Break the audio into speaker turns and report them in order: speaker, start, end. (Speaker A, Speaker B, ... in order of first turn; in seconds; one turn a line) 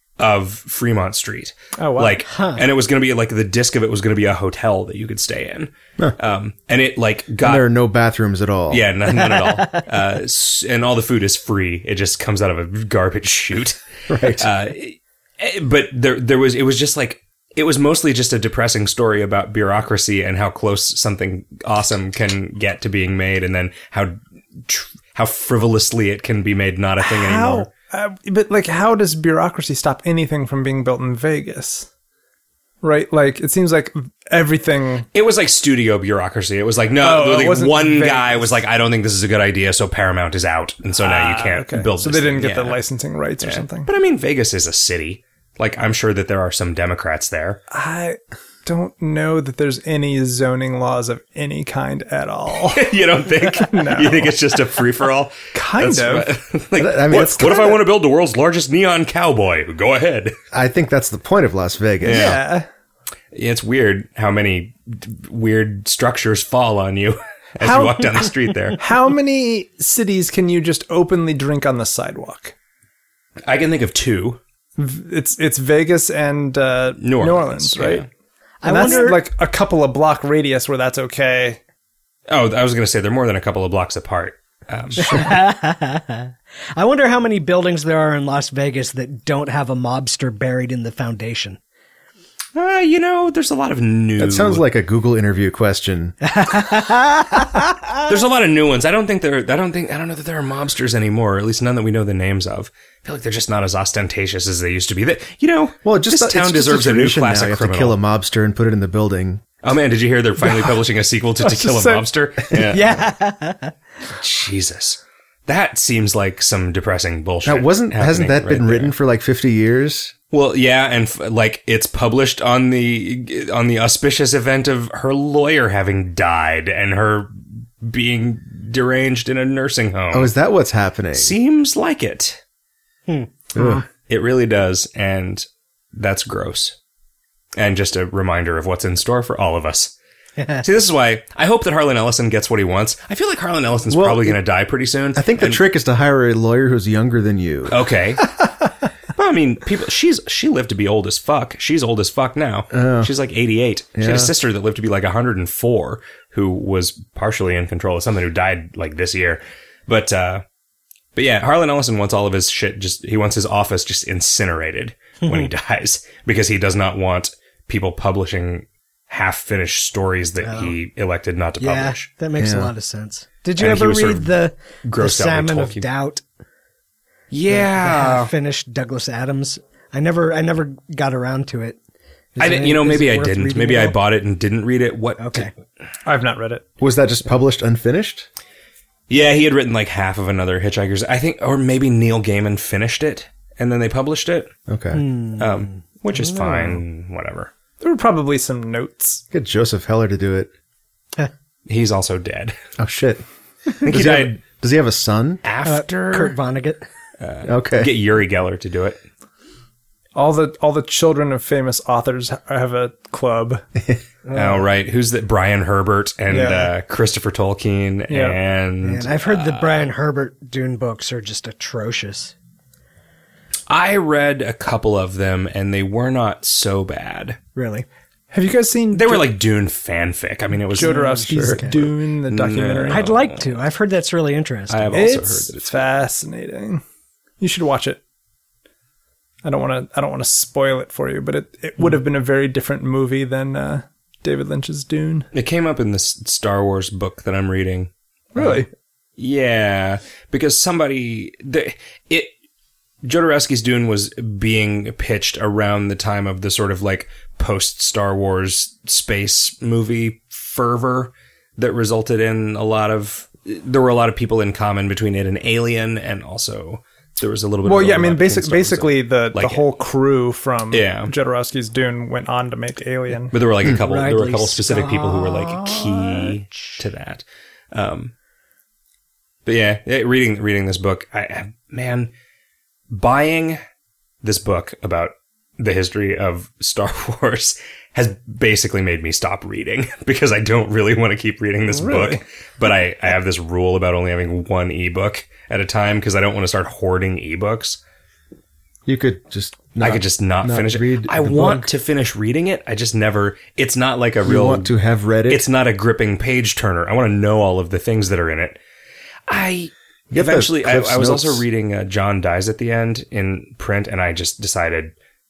Speaker A: 0.2-7.7
Speaker B: 1.8-2.2
Speaker C: 2.3-2.6
Speaker D: 7.4-8.8
Speaker A: 8.7-27.7
Speaker C: 9.1-9.8
Speaker D: 14.1-14.5
Speaker B: 27.0-31.9
Speaker B: 32.8-35.1
Speaker A: 35.1-42.8
Speaker B: 37.0-38.6
Speaker B: 41.0-43.9
Speaker A: 43.4-47.6
Speaker B: 47.7-54.4
Speaker A: 52.6-60.4
Speaker B: 55.5-56.3
Speaker D: 56.8-57.8
Speaker D: 60.5-62.4
Speaker A: 62.0-62.4
Speaker B: 62.1-62.7
Speaker A: 63.3-68.8
Speaker B: 67.6-72.5
Speaker A: 73.5-74.4
Speaker B: 74.8-78.1
Speaker A: 77.0-78.1
Speaker C: 78.6-79.2
Speaker B: 78.7-81.6
Speaker A: 78.8-79.0
Speaker A: 82.3-85.3
Speaker C: 85.0-91.6
Speaker A: 92.5-94.6
Speaker D: 94.2-96.2
Speaker C: 96.2-97.9
Speaker A: 98.1-108.0
Speaker D: 105.8-109.4
Speaker A: 109.6-113.0
Speaker B: 110.4-110.8
Speaker B: 111.4-112.1
Speaker C: 112.6-113.7
Speaker A: 114.1-118.9
Speaker D: 117.5-120.1
Speaker A: 120.3-130.3
Speaker D: 130.1-131.4
Speaker A: 131.1-132.4
Speaker C: 133.1-133.8
Speaker D: 133.6-133.8
Speaker A: 133.9-136.8
Speaker A: 137.6-139.9
Speaker A: 140.6-145.6
Speaker D: 143.9-144.4
Speaker D: 145.2-147.8
Speaker A: 147.7-148.3
Speaker A: 149.2-160.4
Speaker D: 152.7-153.1
Speaker D: 154.0-154.3
Speaker A: 161.2-172.1
Speaker C: 165.2-165.5
Speaker C: 170.4-170.7
Speaker C: 171.6-176.2
Speaker D: 172.4-172.7
Speaker A: 173.6-175.8
Speaker A: 177.3-178.3
Speaker C: 177.5-181.8
Speaker C: 182.4-184.0
Speaker A: 182.4-185.5
Speaker C: 185.2-185.5
Speaker B: 186.1-186.6
Speaker D: 186.8-188.3
Speaker A: 189.1-194.5
Speaker D: 194.7-195.0
Speaker C: 194.9-196.8
Speaker A: 195.4-197.5
Speaker B: 197.8-199.2
Speaker D: 199.3-200.5
Speaker A: 201.7-202.6
Speaker D: 202.8-203.2
Speaker A: 203.8-204.4
Speaker D: 203.8-205.4
Speaker A: 205.4-206.3
Speaker C: 205.7-206.8
Speaker A: 207.2-209.0
Speaker D: 207.4-207.9
Speaker B: 210.2-213.6
Speaker C: 214.3-214.7
Speaker A: 214.3-219.9
Speaker B: 216.3-216.7
Speaker B: 218.1-218.4
Speaker C: 218.8-222.3
Speaker A: 223.7-227.4
Speaker C: 227.6-227.9
Speaker B: 228.3-229.3
Speaker A: 228.9-233.5
Speaker B: 230.7-233.1
Speaker C: 230.8-231.9
Speaker C: 232.9-235.0
Speaker A: 234.7-235.9
Speaker B: 234.9-236.8
Speaker B: 237.4-238.0
Speaker B: 239.4-245.3
Speaker A: 245.3-248.6
Speaker B: 248.3-248.7
Speaker A: 249.2-252.3
Speaker A: 253.0-269.6
Speaker B: 267.6-273.3
Speaker A: 270.7-271.1
Speaker A: 273.3-278.1
Speaker C: 273.7-276.8
Speaker A: 279.5-282.1
Speaker A: 282.9-283.6
Speaker A: 284.2-297.8
Speaker B: 291.7-292.2
Speaker D: 298.9-301.7
Speaker A: 299.8-304.7
Speaker D: 304.2-305.4
Speaker A: 305.3-308.6
Speaker A: 309.3-314.9
Speaker D: 310.1-311.4